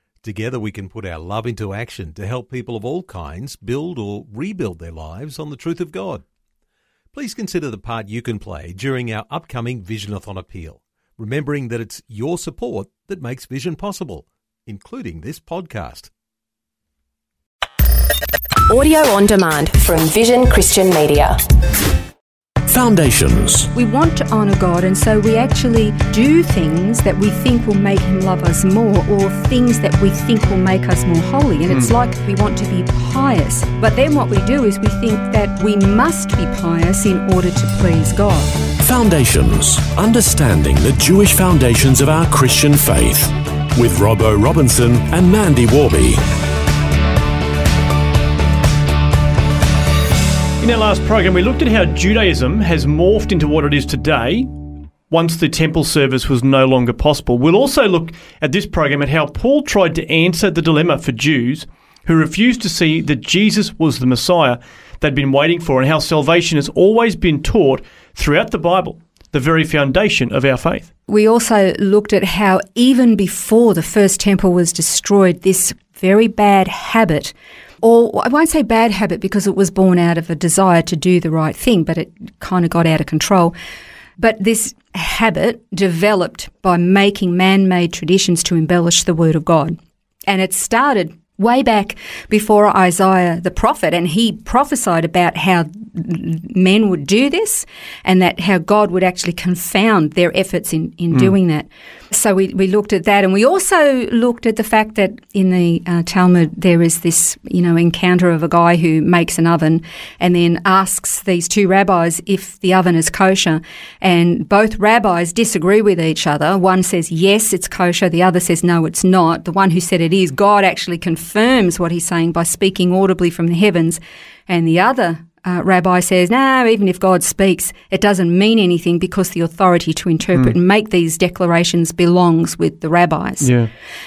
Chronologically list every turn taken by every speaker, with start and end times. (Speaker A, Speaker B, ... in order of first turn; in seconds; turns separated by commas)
Speaker A: 0.2-6.2, Speaker A: 7.1-16.1, Speaker B: 18.7-21.3, Speaker C: 22.7-23.7, Speaker D: 23.7-38.5, Speaker C: 38.8-46.2, Speaker E: 50.6-54.5, Speaker E: 55.1-70.9, Speaker D: 71.1-83.5, Speaker D: 84.2-89.8, Speaker D: 90.3-133.5, Speaker E: 133.4-133.7